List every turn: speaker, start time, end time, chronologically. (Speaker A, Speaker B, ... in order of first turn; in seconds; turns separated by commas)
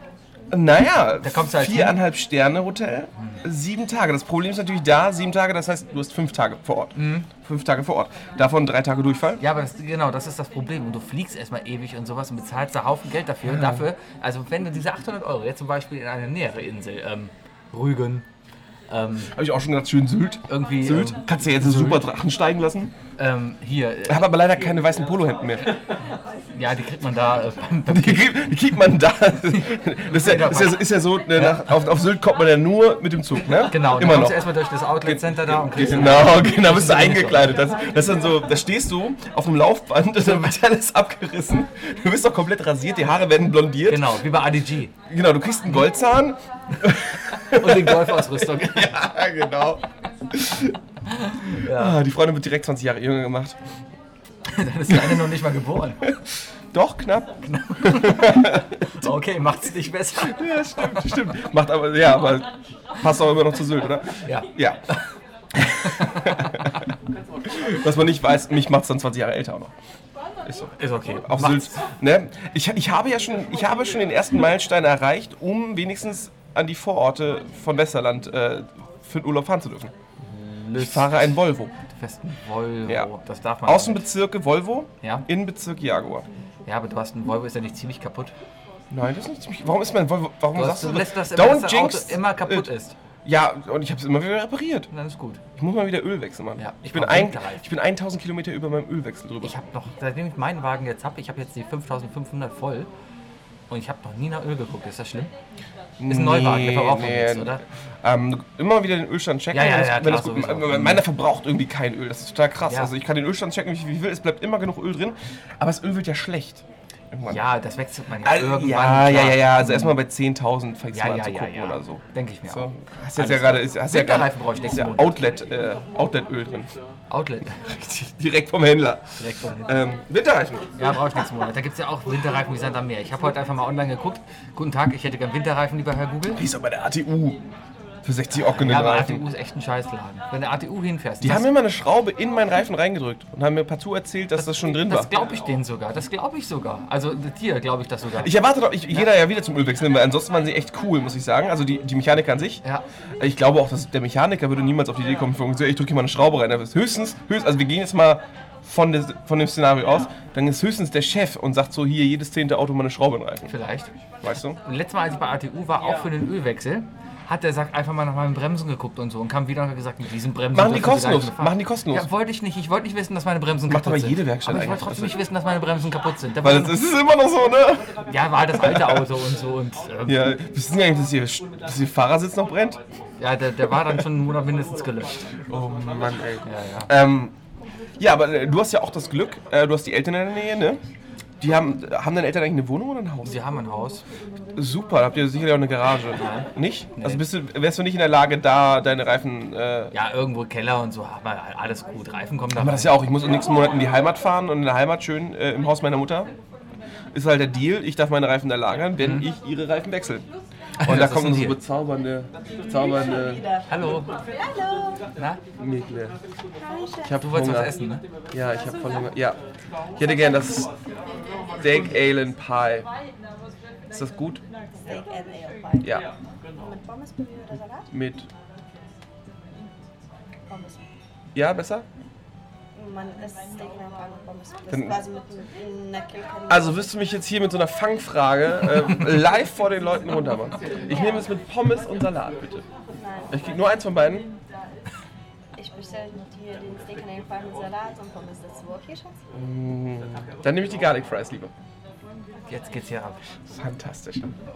Speaker A: 0.5-9.4, Speaker B: 1.2-2.0, Speaker B: 7.0-7.3, Speaker B: 9.4-18.3, Speaker A: 13.4-13.8, Speaker B: 18.9-19.3, Speaker A: 19.3-22.9, Speaker B: 20.5-22.1, Speaker B: 23.2-24.3, Speaker A: 24.1-25.7, Speaker B: 26.6-28.4, Speaker A: 27.9-44.2, Speaker B: 29.5-31.7, Speaker B: 33.7-37.6, Speaker B: 43.9-44.9, Speaker A: 45.1-50.8, Speaker B: 47.4-49.0, Speaker B: 51.1-52.0, Speaker A: 51.6-53.6, Speaker B: 54.5-56.1, Speaker A: 54.9-55.3, Speaker A: 56.7-58.9, Speaker B: 57.4-61.1, Speaker A: 60.2-64.8, Speaker B: 64.2-65.0, Speaker A: 65.6-66.8, Speaker B: 65.6-66.7, Speaker A: 67.4-69.7, Speaker A: 70.5-79.9, Speaker B: 70.8-71.8, Speaker B: 80.2-81.3, Speaker A: 80.8-81.7, Speaker B: 81.9-84.1, Speaker A: 83.7-86.3, Speaker B: 85.0-85.3, Speaker B: 86.7-88.3, Speaker A: 88.9-92.7, Speaker B: 90.5-93.0, Speaker A: 93.2-94.9, Speaker B: 94.9-95.4, Speaker A: 95.6-99.5, Speaker B: 96.6-97.7, Speaker B: 99.4-102.9, Speaker B: 103.7-105.3, Speaker A: 106.0-117.4, Speaker B: 106.1-107.6, Speaker B: 109.5-111.0, Speaker B: 112.7-112.9, Speaker B: 117.3-120.0, Speaker A: 118.2-126.7, Speaker B: 120.9-125.2, Speaker B: 127.1-127.9, Speaker A: 127.7-129.1, Speaker B: 129.2-129.7, Speaker A: 129.7-130.9, Speaker B: 130.8-136.4, Speaker A: 136.3-137.4, Speaker A: 138.0-139.2, Speaker B: 138.4-141.5, Speaker A: 141.2-145.1, Speaker B: 144.4-148.3, Speaker A: 148.2-152.6, Speaker A: 153.2-163.5, Speaker B: 163.4-163.9, Speaker A: 164.2-164.6, Speaker B: 164.6-176.8, Speaker A: 170.5-172.1, Speaker A: 173.7-175.2, Speaker A: 176.4-179.1, Speaker B: 178.1-180.3, Speaker A: 180.1-182.8, Speaker B: 183.2-185.3, Speaker A: 185.5-187.3, Speaker B: 186.4-186.9, Speaker A: 188.0-190.8, Speaker A: 191.4-193.4, Speaker B: 193.2-194.0, Speaker A: 194.6-199.9, Speaker B: 196.2-197.2, Speaker B: 199.9-203.0, Speaker A: 202.5-206.3, Speaker A: 207.1-210.3, Speaker B: 209.0-209.3, Speaker B: 210.8-211.6, Speaker A: 210.8-213.4, Speaker C: 212.5-215.1, Speaker B: 213.7-214.1, Speaker A: 215.6-216.2, Speaker C: 216.6-217.2, Speaker A: 217.1-217.7, Speaker B: 217.2-218.0, Speaker A: 218.3-219.4, Speaker A: 220.0-220.7, Speaker C: 221.1-221.8, Speaker A: 221.6-222.9, Speaker A: 223.9-224.4, Speaker C: 224.8-226.0, Speaker C: 226.6-227.9, Speaker A: 227.9-228.3, Speaker C: 230.5-230.8, Speaker A: 231.3-231.9, Speaker C: 232.8-236.9, Speaker A: 234.7-235.0, Speaker A: 236.5-242.7, Speaker C: 240.9-241.2, Speaker C: 242.9-243.5, Speaker A: 243.3-244.3, Speaker C: 245.6-249.2, Speaker A: 249.3-251.5, Speaker B: 252.5-253.2, Speaker A: 253.5-254.3